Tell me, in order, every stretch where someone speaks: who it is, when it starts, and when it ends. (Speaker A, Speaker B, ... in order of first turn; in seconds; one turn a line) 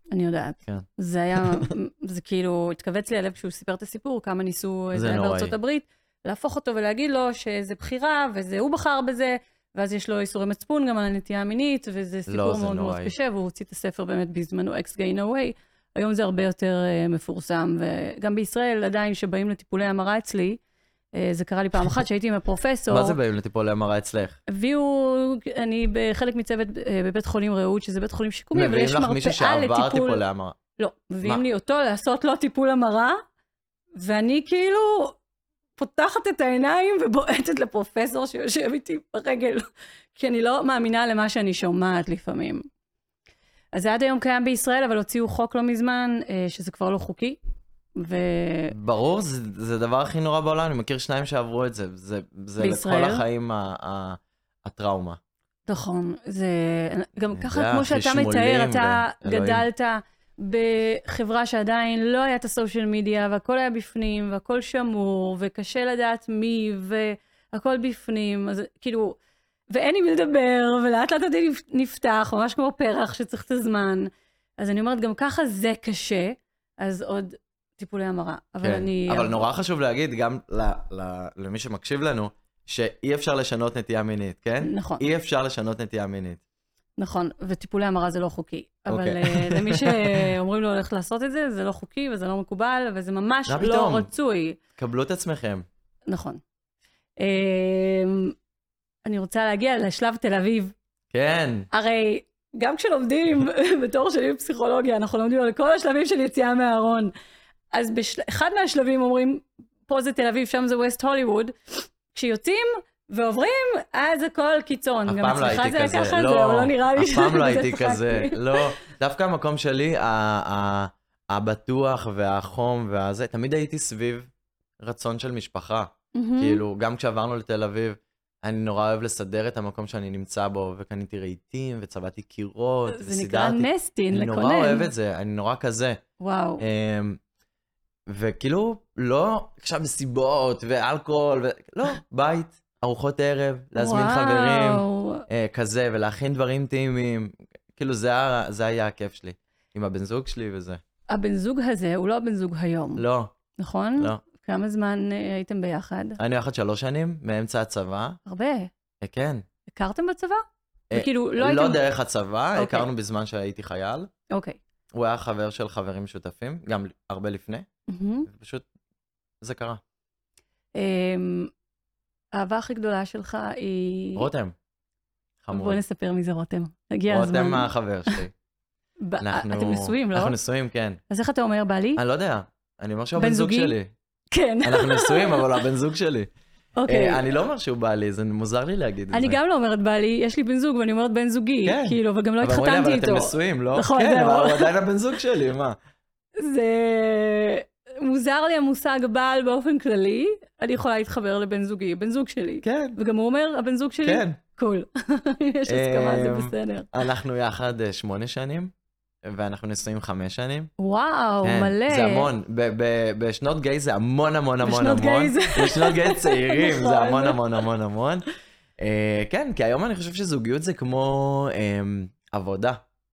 Speaker A: 0.1-20.6
Speaker B: 0.7-1.7
Speaker B: 4.9-5.5
Speaker B: 12.3-13.1
Speaker A: 21.1-23.2
Speaker B: 22.9-24.4
Speaker A: 24.5-30.2
Speaker B: 28.5-30.6
Speaker A: 30.8-33.2
Speaker A: 34.0-35.2
Speaker A: 35.8-39.6
Speaker A: 40.1-42.6
Speaker A: 43.7-47.4
Speaker A: 48.0-48.7
Speaker B: 48.7-55.2
Speaker A: 52.6-53.2
Speaker A: 55.7-69.2
Speaker B: 57.3-59.6
Speaker A: 69.7-79.5
Speaker B: 78.6-86.4
Speaker A: 84.6-85.1
Speaker A: 87.0-94.6
Speaker B: 88.9-90.3
Speaker B: 93.5-94.1
Speaker B: 94.8-95.6
Speaker A: 96.1-96.4
Speaker A: 97.2-98.3
Speaker A: 99.0-100.7
Speaker B: 101.1-101.7
Speaker A: 101.7-107.1
Speaker A: 107.7-118.7
Speaker B: 115.1-124.3
Speaker B: 124.8-136.0
Speaker A: 126.1-126.6
Speaker A: 132.9-134.9
Speaker A: 136.2-136.6
Speaker B: 136.6-137.2
Speaker B: 138.1-150.8
Speaker A: 143.7-145.2
Speaker A: 151.1-153.0
Speaker B: 153.0-153.3
Speaker A: 153.6-156.2
Speaker B: 156.2-158.2
Speaker A: 158.2-158.7
Speaker B: 159.0-159.4
Speaker A: 159.7-160.4
Speaker B: 160.9-164.1
Speaker A: 160.9-161.8
Speaker A: 162.6-162.9
Speaker A: 164.3-164.6
Speaker B: 164.9-167.7
Speaker A: 167.9-168.3
Speaker B: 168.3-168.7
Speaker B: 169.4-169.8
Speaker A: 170.8-171.5
Speaker A: 172.3-174.3
Speaker B: 174.2-174.5
Speaker B: 175.4-175.8
Speaker A: 175.5-178.2
Speaker B: 177.1-178.3
Speaker A: 179.1-180.3
Speaker B: 179.2-181.0
Speaker A: 181.1-182.0
Speaker B: 182.0-183.9
Speaker A: 183.2-183.7
Speaker A: 184.3-185.6
Speaker B: 184.6-186.3
Speaker A: 186.8-187.3
Speaker B: 186.9-189.4
Speaker A: 189.1-194.7
Speaker B: 191.6-195.8
Speaker A: 196.4-206.9
Speaker B: 202.6-203.0
Speaker B: 204.0-204.4
Speaker B: 205.7-208.7
Speaker B: 209.2-210.7
Speaker A: 210.8-212.3
Speaker B: 211.4-218.2
Speaker A: 214.6-217.6
Speaker B: 218.8-222.8